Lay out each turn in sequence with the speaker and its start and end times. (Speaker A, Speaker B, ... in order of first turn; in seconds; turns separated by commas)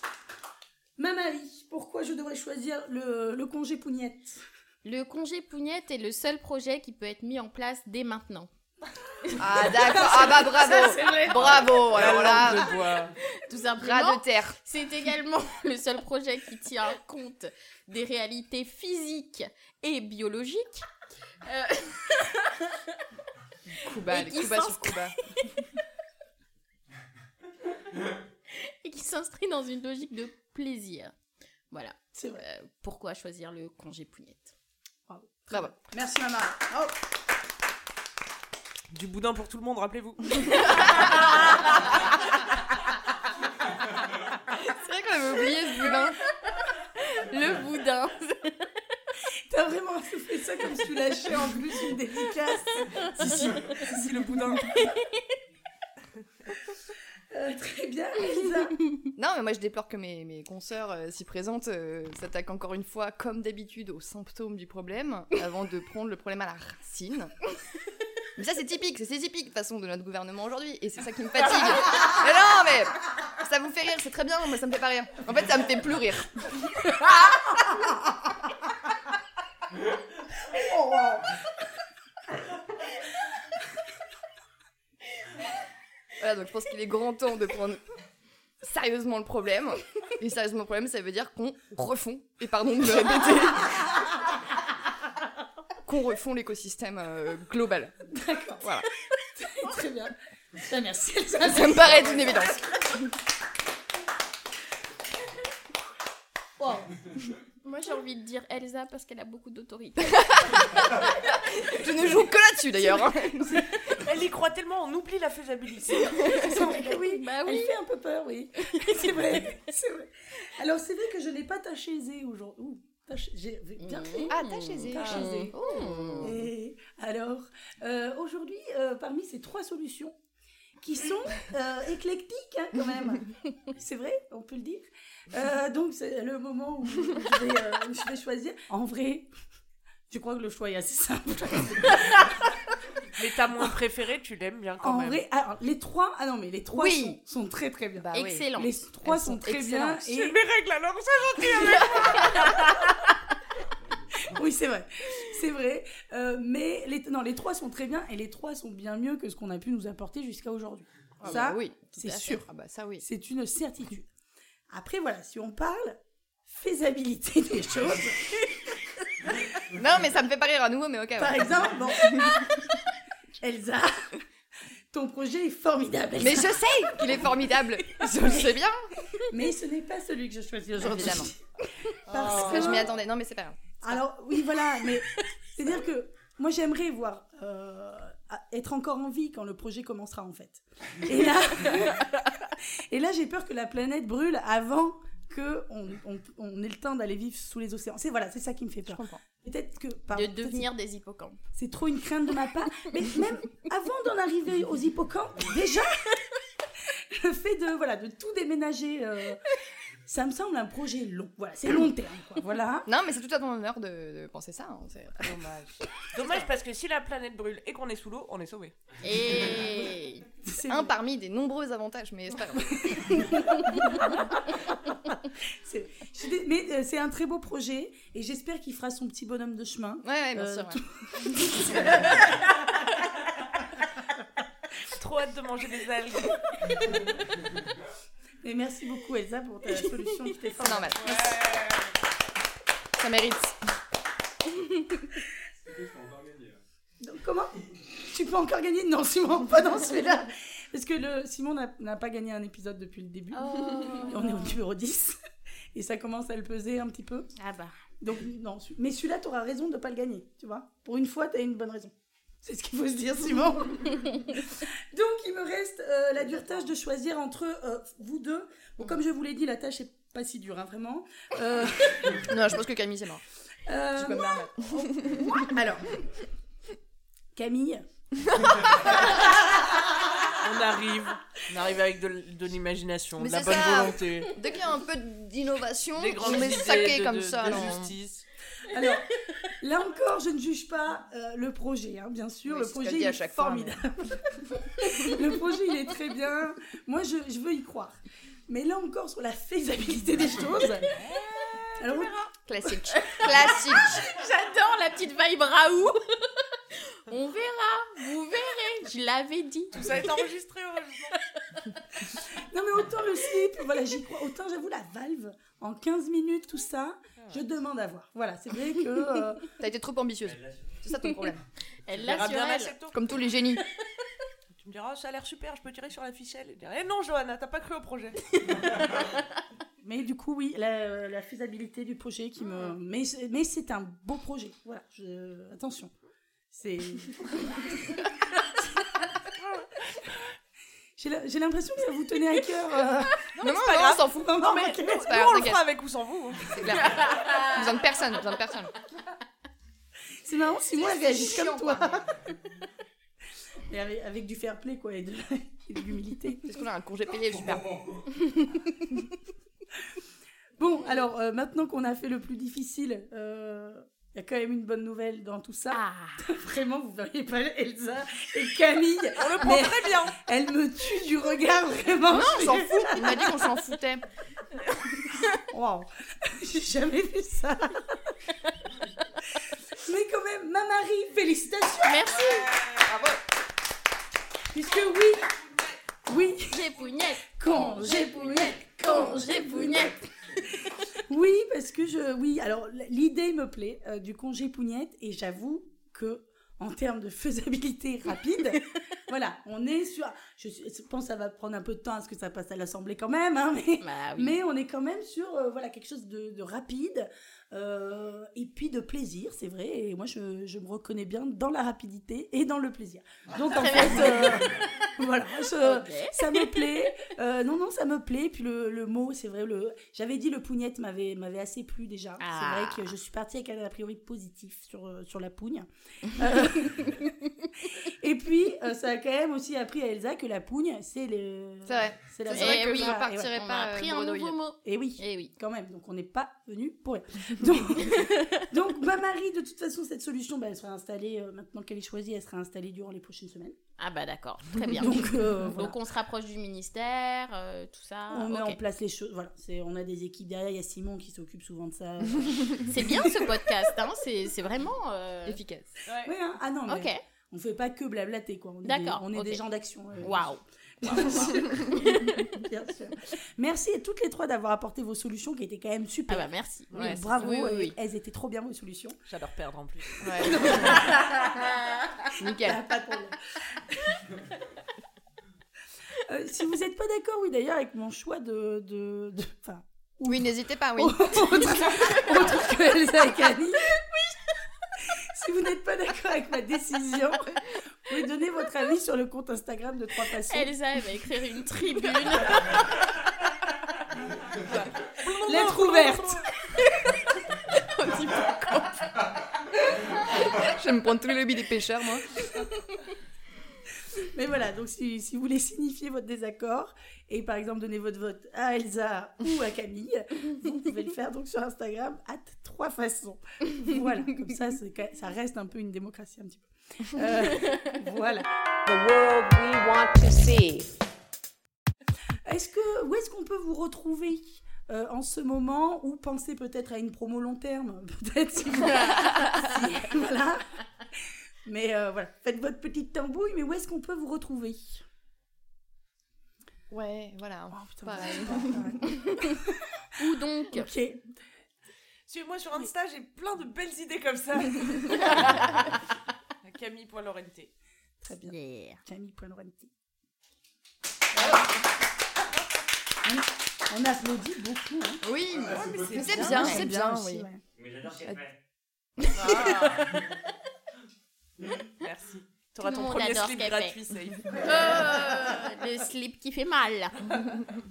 Speaker A: 1.0-4.4, Speaker B: 4.8-8.5, Speaker C: 9.4-12.8, Speaker A: 9.4-12.6, Speaker D: 11.2-13.1, Speaker B: 13.4-20.9, Speaker C: 13.8-14.6, Speaker B: 21.4-22.8, Speaker C: 23.8-25.1, Speaker B: 24.1-25.6, Speaker B: 28.5-31.1, Speaker B: 31.7-34.5, Speaker A: 32.1-32.4, Speaker A: 35.1-36.9, Speaker D: 38.9-40.9, Speaker C: 44.6-46.2, Speaker B: 47.0-48.5, Speaker A: 49.5-53.5, Speaker D: 53.1-54.8, Speaker B: 54.6-55.2, Speaker A: 57.3-58.8, Speaker C: 59.1-67.3, Speaker C: 68.3-76.7, Speaker A: 76.8-78.7, Speaker A: 80.5-81.4, Speaker C: 86.2-87.8, Speaker C: 88.6-93.9, Speaker C: 95.8-98.0, Speaker A: 98.1-102.6, Speaker C: 98.6-98.9, Speaker C: 101.4-103.1, Speaker A: 106.6-106.8, Speaker B: 107.6-110.8, Speaker C: 110.0-113.7, Speaker A: 113.4-113.8, Speaker D: 113.8-116.4, Speaker C: 116.0-116.5, Speaker A: 116.2-125.5, Speaker B: 116.5-117.7, Speaker B: 123.8-126.3, Speaker C: 124.3-126.4, Speaker A: 126.2-130.1, Speaker A: 130.8-139.3, Speaker A: 140.1-142.4, Speaker D: 143.2-145.2, Speaker A: 144.8-150.4, Speaker C: 146.8-147.2, Speaker C: 148.0-148.4, Speaker B: 148.1-148.7, Speaker C: 149.0-150.1, Speaker D: 150.1-152.8, Speaker A: 151.8-153.1, Speaker A: 154.1-162.5, Speaker C: 161.2-163.0, Speaker A: 163.0-164.1, Speaker A: 164.7-169.2, Speaker C: 169.7-172.4, Speaker A: 171.2-172.4, Speaker A: 173.4-174.1, Speaker A: 174.9-178.6, Speaker C: 176.2-178.9, Speaker A: 179.3-182.9, Speaker C: 180.8-181.3, Speaker D: 182.1-183.0, Speaker C: 182.1-184.0, Speaker A: 183.8-200.7, Speaker C: 198.9-199.2, Speaker B: 200.1-201.4, Speaker A: 201.5-206.2, Speaker A: 206.9-209.4, Speaker A: 210.1-212.9, Speaker C: 212.8-215.3, Speaker D: 215.2-218.7, Speaker B: 219.0-220.2, Speaker A: 220.4-220.9, Speaker C: 220.6-223.4, Speaker A: 222.5-233.2, Speaker C: 230.0-230.8, Speaker D: 234.9-236.4, Speaker A: 238.4-241.1, Speaker C: 240.6-241.2, Speaker D: 241.0-241.8, Speaker C: 243.0-243.6, Speaker A: 247.0-255.2, Speaker B: 253.3-254.5, Speaker A: 255.7-257.3, Speaker B: 257.4-257.7, Speaker A: 258.0-272.6, Speaker C: 272.1-273.2, Speaker A: 273.7-275.9, Speaker C: 273.9-275.6, Speaker A: 277.3-277.8, Speaker C: 278.4-278.9, Speaker A: 278.9-279.8, Speaker D: 280.3-284.4, Speaker C: 283.2-287.9, Speaker D: 285.9-288.2, Speaker A: 288.7-298.0, Speaker C: 292.5-293.8, Speaker A: 298.5-300.9, Speaker D: 301.0-301.6, Speaker A: 301.8-303.5, Speaker C: 302.4-304.0, Speaker B: 302.9-306.0, Speaker B: 306.9-310.2, Speaker D: 309.7-311.2, Speaker B: 311.5-311.8, Speaker A: 312.3-319.5, Speaker C: 319.6-321.4, Speaker E: 320.2-320.8, Speaker B: 321.9-322.7, Speaker D: 321.9-322.9, Speaker C: 322.9-323.6, Speaker D: 324.6-328.8, Speaker A: 329.8-335.9, Speaker A: 336.5-339.2, Speaker A: 341.0-343.2, Speaker D: 343.3-346.9, Speaker C: 343.4-345.6, Speaker A: 344.1-345.2, Speaker C: 346.5-348.7, Speaker A: 350.2-352.2, Speaker C: 350.8-351.9, Speaker A: 353.7-356.4, Speaker C: 356.4-358.0, Speaker A: 360.6-373.6, Speaker B: 365.7-366.2, Speaker D: 369.1-370.2, Speaker C: 372.1-374.0, Speaker A: 375.5-378.1, Speaker A: 379.4-382.3, Speaker B: 381.8-382.5, Speaker C: 382.6-383.2, Speaker A: 384.5-385.3, Speaker A: 386.1-427.1, Speaker B: 386.5-389.9, Speaker B: 403.8-404.4, Speaker B: 413.5-414.7, Speaker B: 415.6-416.6, Speaker B: 422.2-422.9, Speaker A: 427.8-433.3, Speaker C: 431.6-434.4, Speaker B: 432.3-435.3, Speaker A: 434.6-443.6, Speaker B: 437.8-438.3, Speaker B: 443.8-448.6, Speaker A: 444.7-445.8, Speaker A: 448.1-453.4, Speaker B: 452.7-455.4, Speaker C: 455.2-455.7, Speaker D: 455.9-456.1, Speaker A: 456.0-460.3, Speaker B: 456.7-457.0, Speaker B: 458.6-459.4, Speaker B: 460.0-461.3, Speaker A: 460.8-469.0, Speaker B: 466.1-467.7, Speaker C: 466.7-467.5, Speaker D: 469.1-470.8, Speaker C: 470.0-470.9, Speaker A: 470.1-471.6, Speaker C: 472.2-472.6, Speaker A: 472.3-474.0, Speaker A: 476.0-483.8, Speaker C: 480.1-481.9, Speaker A: 484.8-490.5, Speaker B: 490.3-492.9, Speaker D: 494.4-496.3, Speaker A: 495.2-496.2, Speaker B: 497.5-498.9, Speaker C: 500.3-502.1, Speaker A: 503.9-518.3, Speaker F: 518.6-520.7, Speaker A: 522.2-534.8, Speaker C: 536.7-538.8, Speaker A: 537.5-539.8, Speaker B: 540.0-540.7, Speaker A: 540.5-541.0, Speaker D: 542.1-545.7, Speaker B: 545.0-545.7, Speaker D: 546.4-547.5, Speaker A: 548.0-549.7, Speaker B: 548.3-548.8, Speaker A: 553.0-555.0, Speaker C: 555.0-557.3, Speaker D: 555.4-556.7, Speaker A: 555.8-557.4, Speaker E: 557.5-558.4, Speaker D: 559.1-559.9, Speaker E: 559.6-560.0, Speaker D: 561.8-564.9, Speaker B: 562.6-563.8, Speaker B: 564.3-567.2